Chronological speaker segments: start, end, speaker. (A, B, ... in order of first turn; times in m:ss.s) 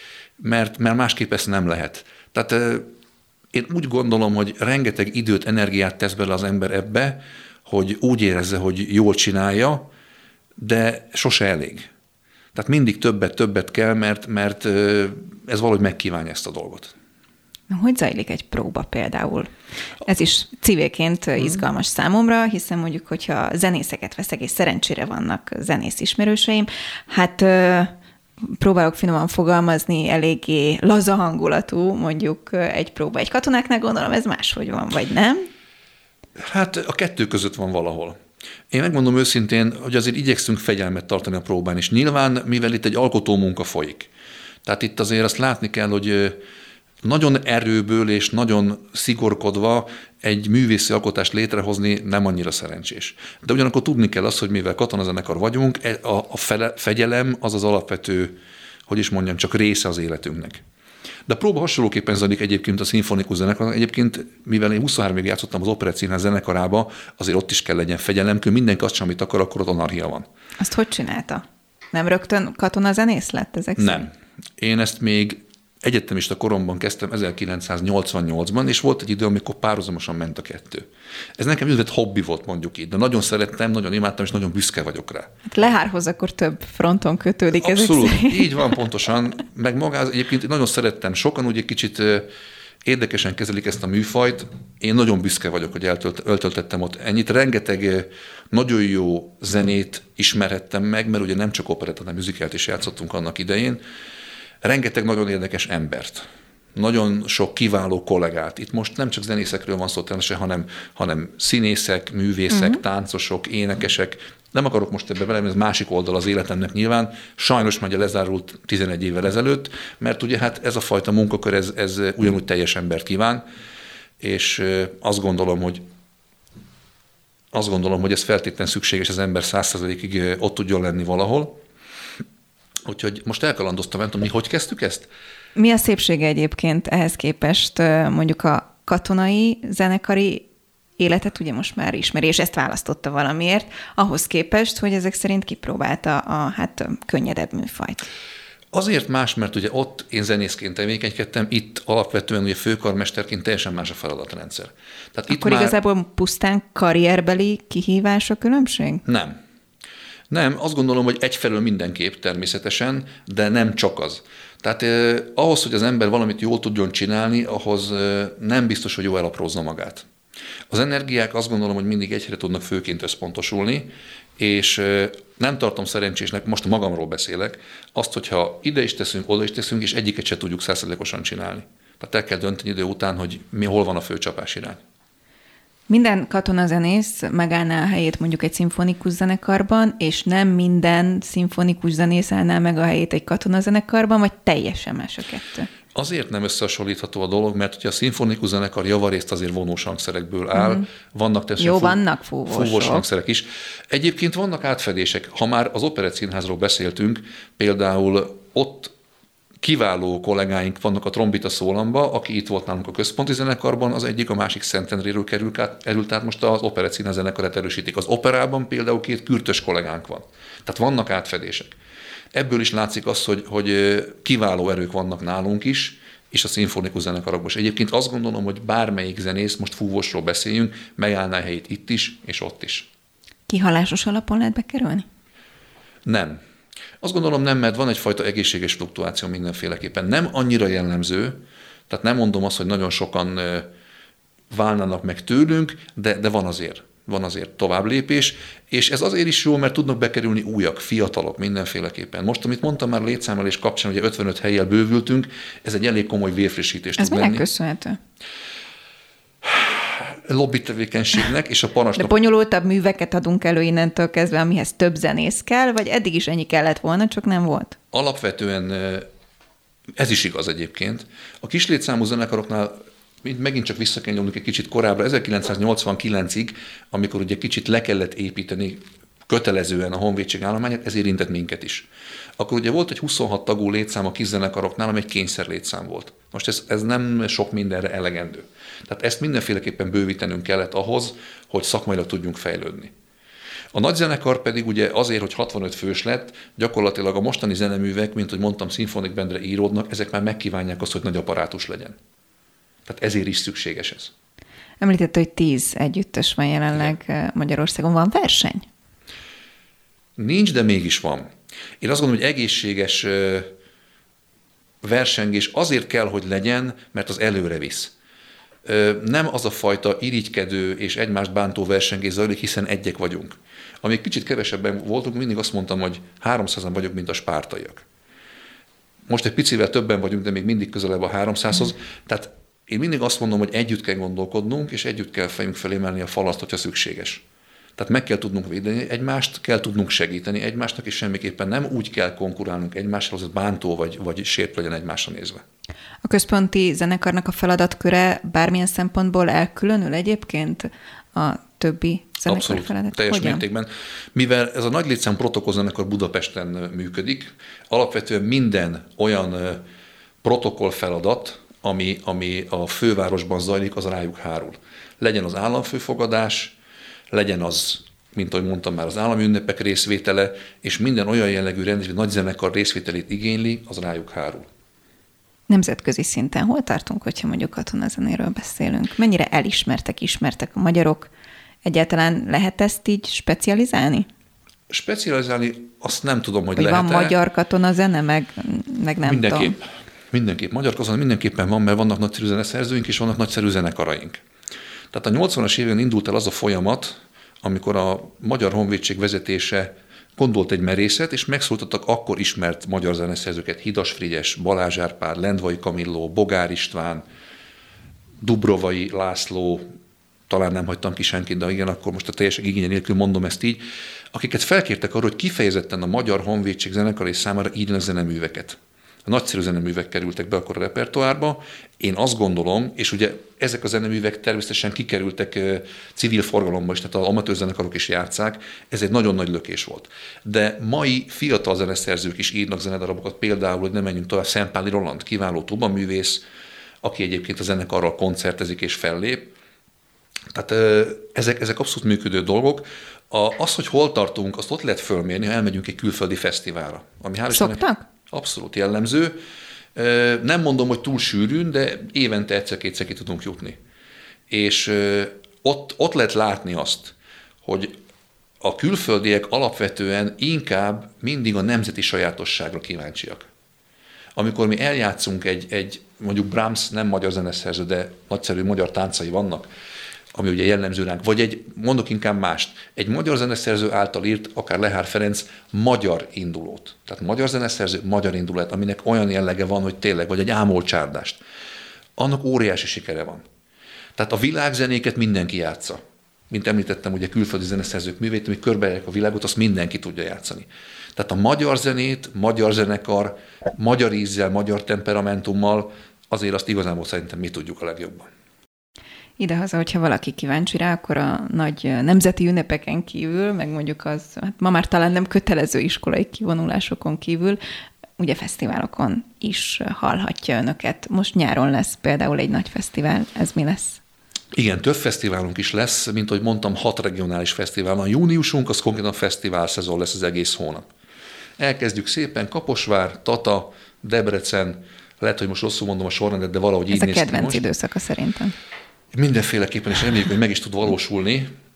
0:00.4-0:02.9 A
0:03.5-0:09.9 A
0:10.6-0:11.9 A
0:12.6-0:16.9 A
0:17.7-0:19.5 B
0:20.0-0:35.4 B
0:36.4-0:38.2 A
0:38.7-0:44.1 A
0:44.6-0:46.4 A
0:47.0-1:00.6 A
1:01.3-1:10.3 A
1:10.6-1:14.1 B
1:13.8-1:20.9 A
1:21.4-1:25.3 A
1:25.5-1:28.7 B
1:27.5-1:32.3 A
1:32.8-1:43.8 A
1:44.6-2:03.4 A
1:52.5-1:52.8 B
2:04.2-2:05.8 A
2:07.5-2:11.6 A
2:12.9-2:15.1 A
2:15.6-2:20.5 B
2:21.0-2:28.1 B
2:28.7-2:35.8 A
2:35.3-2:39.0 B
2:39.0-2:39.4 A
2:40.3-2:50.1 A
2:50.7-3:04.8 A
3:05.9-3:15.7 B
3:16.0-3:28.9 A
3:20.6-3:20.9 B
3:21.6-3:23.0 B
3:29.6-3:41.8 A
3:42.3-3:52.9 A
3:53.5-3:55.0 B
3:56.0-3:56.4 A
3:57.0-4:03.7 A
4:04.5-4:17.5 A
4:17.0-4:18.0 B
4:19.4-4:22.1 A
4:22.0-4:27.8 B
4:27.9-4:29.1 A
4:30.0-4:41.9 A
4:42.4-4:52.9 A
4:53.7-5:02.0 A
5:02.9-5:04.1 A
5:04.8-5:08.7 B
5:10.2-5:11.3 A
5:11.8-5:13.5 A
5:14.8-5:17.9 A
5:18.6-5:27.8 A
5:29.1-5:37.2 A
5:37.8-5:45.4 A
5:46.0-5:53.4 B
5:52.3-5:59.6 A
6:00.2-6:06.6 A
6:07.1-6:14.5 A
6:15.5-6:21.1 B
6:21.6-6:24.1 B
6:24.7-6:27.2 A
6:26.6-6:29.6 B
6:29.0-6:29.6 A
6:30.1-6:34.2 A
6:34.9-6:47.0 A
6:48.2-6:49.6 A
6:50.3-7:16.2 A
7:16.8-7:19.3 A
7:20.3-7:29.2 A
7:27.3-7:27.8 B
7:29.8-7:33.6 A
7:34.3-7:36.9 A
7:37.4-7:37.7 A
7:38.4-7:43.2 A
7:44.2-7:49.5 A
7:50.1-8:01.2 A
8:02.0-8:03.2 A
8:04.0-8:05.8 A
8:06.3-8:18.1 A
8:19.2-8:27.4 B
8:28.0-8:33.8 B
8:34.3-8:40.7 A
8:41.4-8:47.4 A
8:46.7-8:48.4 B
8:48.9-8:51.3 A